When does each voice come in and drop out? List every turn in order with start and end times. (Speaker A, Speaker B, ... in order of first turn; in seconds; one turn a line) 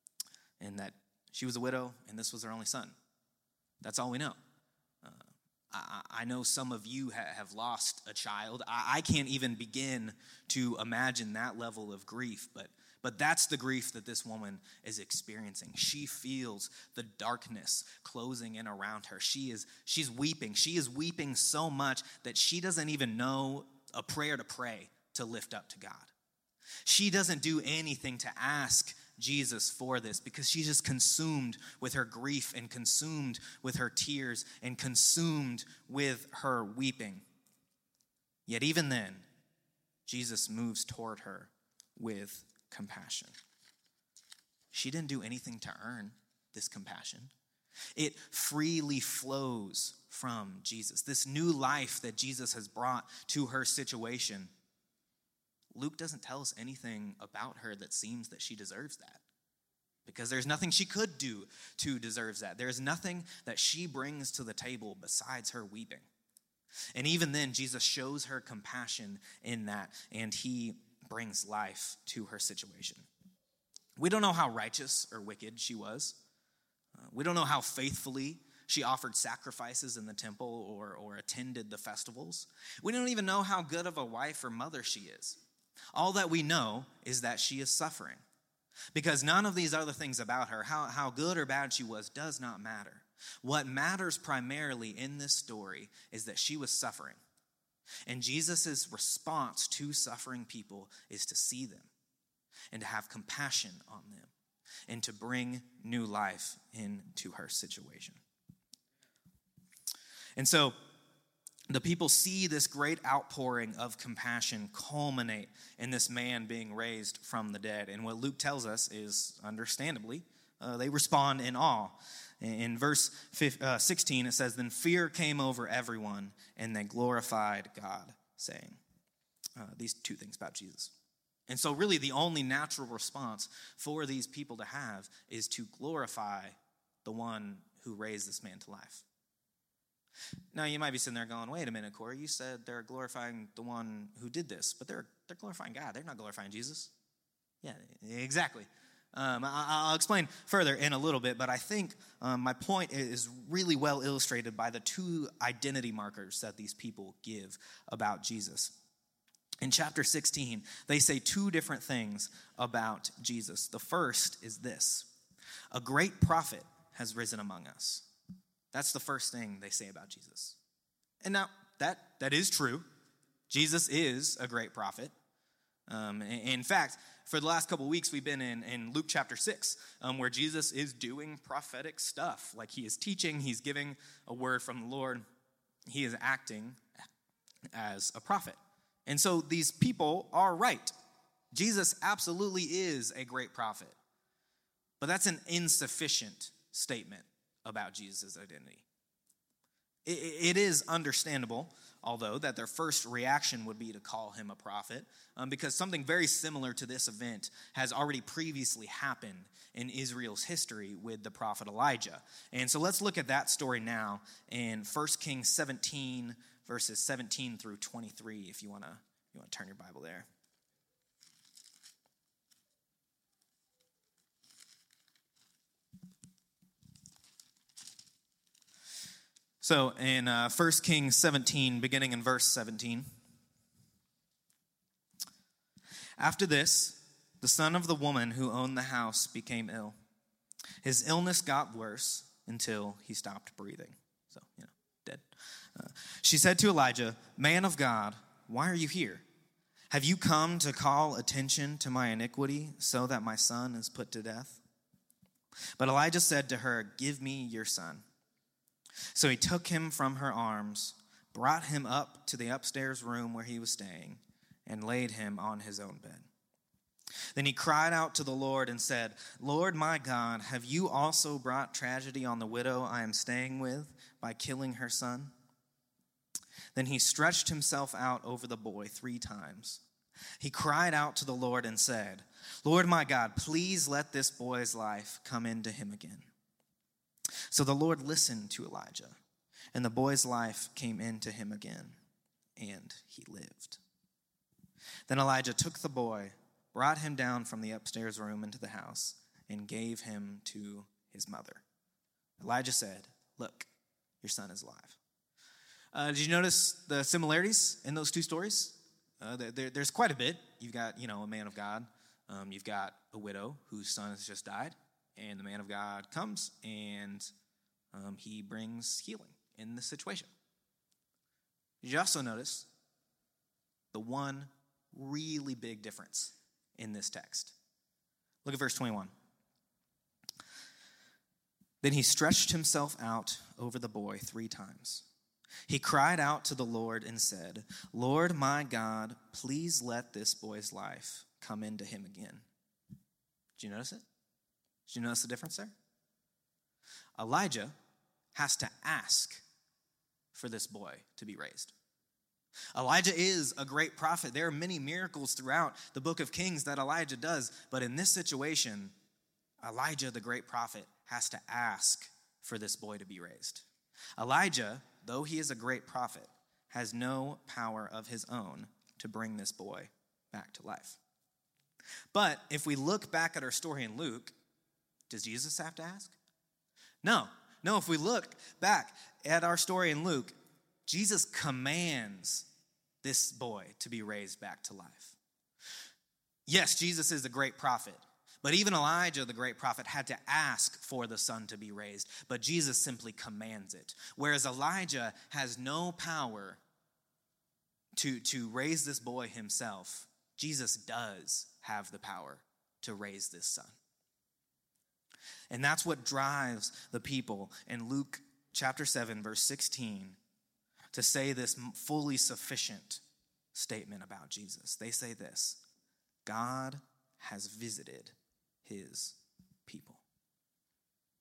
Speaker A: 0.6-3.0
Speaker A: 3.8-4.4
Speaker A: 5.0-26.1
Speaker A: 26.9-37.2
Speaker A: 38.5-39.2
Speaker A: 40.1-43.3
Speaker A: 44.7-47.3
Speaker A: 48.0-54.5
Speaker A: 55.7-59.2
Speaker A: 60.0-66.1
Speaker A: 67.0-73.1
Speaker A: 74.0-76.2
Speaker A: 77.0-85.4
Speaker A: 85.9-88.2
Speaker A: 88.9-97.2
Speaker A: 98.1-101.9
Speaker A: 102.7-104.3
Speaker A: 104.9-108.2
Speaker A: 110.4-110.8
Speaker A: 111.7-128.8
Speaker A: 129.6-130.9
Speaker A: 131.5-139.1
Speaker A: 140.5-146.9
Speaker A: 147.6-158.8
Speaker A: 159.6-165.1
Speaker A: 165.7-168.1
Speaker A: 168.7-170.6
Speaker A: 171.2-172.9
Speaker A: 173.5-175.1
Speaker A: 175.9-185.2
Speaker A: 185.9-186.8
Speaker A: 187.7-190.9
Speaker A: 191.5-194.0
Speaker A: 195.0-198.8
Speaker A: 200.1-220.3
Speaker A: 229.6-233.1
Speaker A: 236.2-240.0
Speaker A: 240.8-249.2
Speaker A: 249.9-254.6
Speaker A: 255.8-258.0
Speaker A: 259.1-266.3
Speaker A: 267.3-275.3
Speaker A: 276.7-279.8
Speaker A: 280.4-286.3
Speaker A: 287.5-289.2
Speaker A: 289.7-292.0
Speaker A: 292.6-293.8
Speaker A: 295.1-301.6
Speaker A: 302.4-303.7
Speaker A: 304.2-305.0
Speaker A: 305.9-317.3
Speaker A: 317.9-320.3
Speaker A: 321.8-322.7
Speaker A: 323.9-327.6
Speaker A: 328.4-329.1
Speaker A: 331.8-335.1
Speaker A: 335.7-342.5
Speaker A: 343.6-344.1
Speaker A: 344.9-345.7
Speaker A: 347.2-347.7
Speaker A: 348.3-349.4
Speaker A: 350.3-351.7
Speaker A: 352.7-358.9
Speaker A: 359.6-363.7
Speaker A: 364.2-371.0
Speaker A: 372.1-374.3
Speaker A: 375.1-376.2
Speaker A: 377.0-380.3
Speaker A: 380.9-382.5
Speaker A: 383.0-385.2
Speaker A: 386.5-396.6
Speaker A: 398.0-403.8
Speaker A: 405.5-410.2
Speaker A: 410.9-413.0
Speaker A: 413.5-415.6
Speaker A: 416.2-420.0